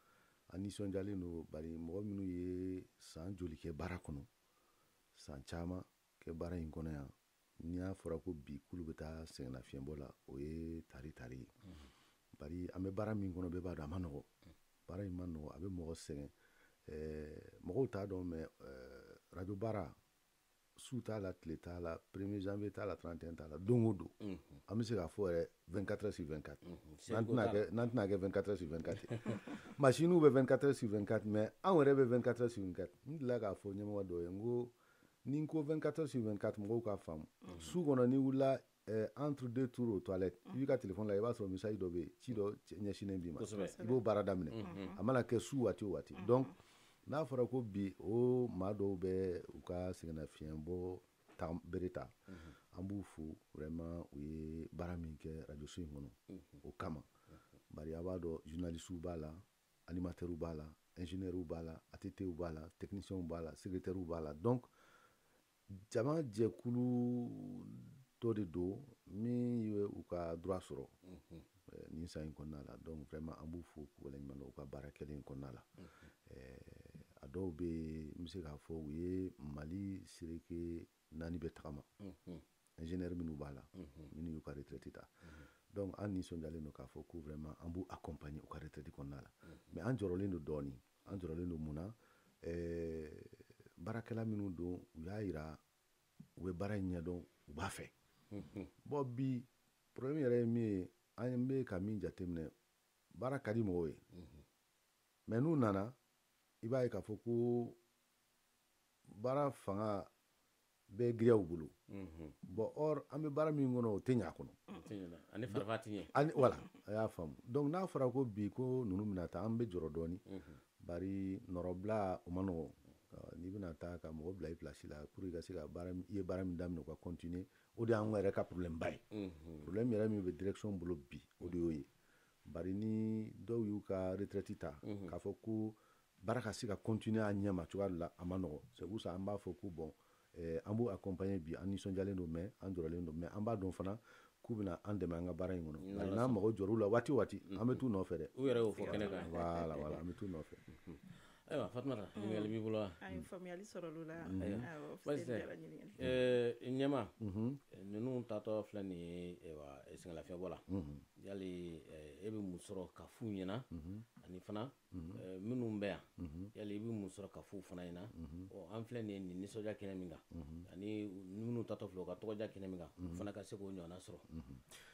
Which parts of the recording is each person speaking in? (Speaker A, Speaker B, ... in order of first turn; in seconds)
Speaker A: 0.5-4.3, 5.1-11.5, 12.4-14.3, 14.9-16.3, 16.9-19.9, 20.8-24.1, 24.7-34.7, 35.2-46.5, 47.0-52.1, 52.7-57.0, 57.7-64.7, 65.7-70.9, 71.7-75.7, 76.2-81.9, 82.8-85.1, 85.7-95.6, 96.4-97.9, 98.8-102.5, 103.1-104.0, 105.3-106.0, 106.6-107.8, 109.1-110.1, 110.9-111.7, 112.4-114.6, 115.5-120.2, 120.8-129.0, 129.6-131.9, 132.5-150.6, 154.2-154.7, 157.2-157.6, 160.7-161.1, 163.7-164.1, 164.9-165.2, 166.2-166.5, 168.2-168.5, 170.3-170.7, 173.0-173.3, 174.3-174.7
Speaker B: 24.3-24.5, 26.6-27.7, 43.4-43.8, 44.5-45.0, 82.0-82.4, 98.3-98.7, 111.9-112.3, 114.7-116.1, 120.3-120.6, 129.1-129.7, 134.8-135.1, 145.8-146.4, 147.5-147.8, 148.3-149.3, 150.7-153.0, 154.3-157.2, 157.7-160.6, 161.2-163.7, 164.2-174.2
Speaker C: 148.5-149.8, 152.2-156.2